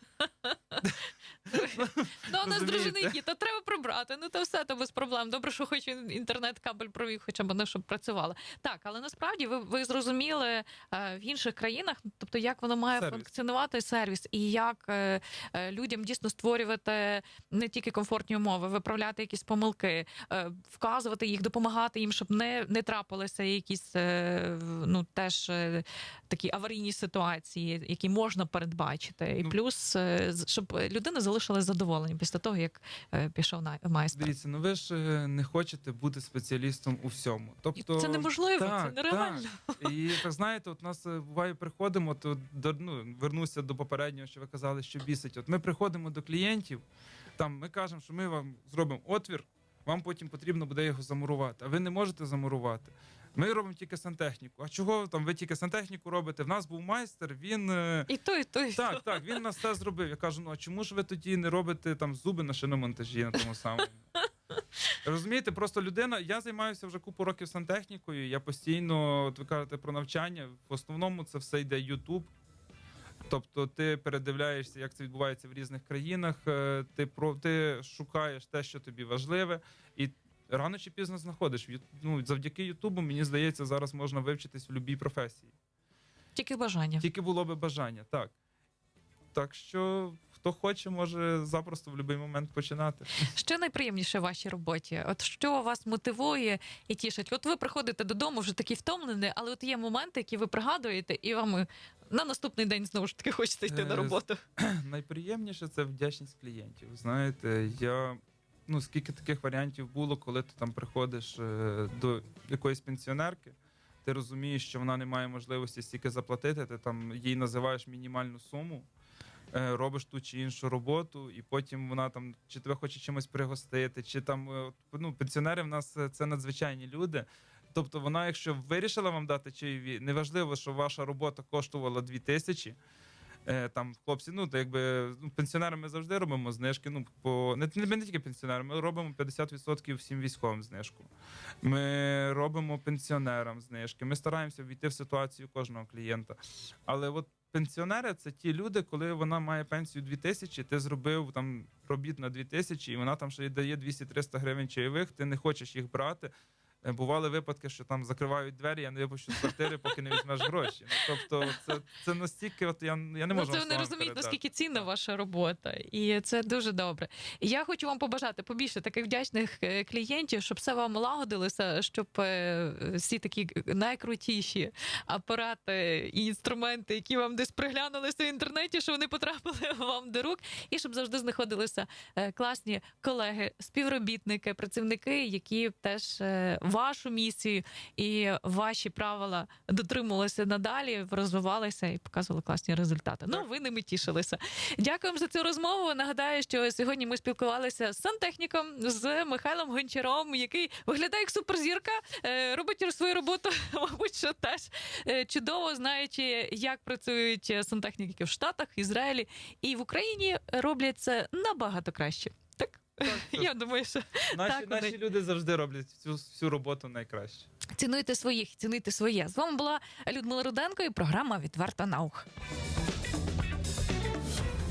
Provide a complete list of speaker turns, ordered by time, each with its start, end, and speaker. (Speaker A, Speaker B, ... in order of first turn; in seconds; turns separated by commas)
Speaker A: 0.2-0.8, Speaker B: 0.8-3.2, Speaker A: 1.5-34.3, Speaker B: 12.9-13.3, Speaker B: 34.1-46.8, Speaker A: 37.8-40.0, Speaker B: 47.4-58.1, Speaker A: 58.1-59.4, Speaker B: 58.8-64.0, Speaker B: 65.0-72.3, Speaker B: 73.3-85.5, Speaker A: 86.3-87.0, Speaker B: 87.0-88.3, Speaker B: 89.3-93.2, Speaker A: 93.3-104.4, Speaker B: 103.7-118.9, Speaker B: 119.5-132.8, Speaker B: 133.4-141.1, Speaker B: 141.6-156.3, Speaker B: 156.8-164.9, Speaker A: 163.3-214.9, Speaker B: 213.0-213.5, Speaker B: 214.3-217.5, Speaker A: 217.7-222.3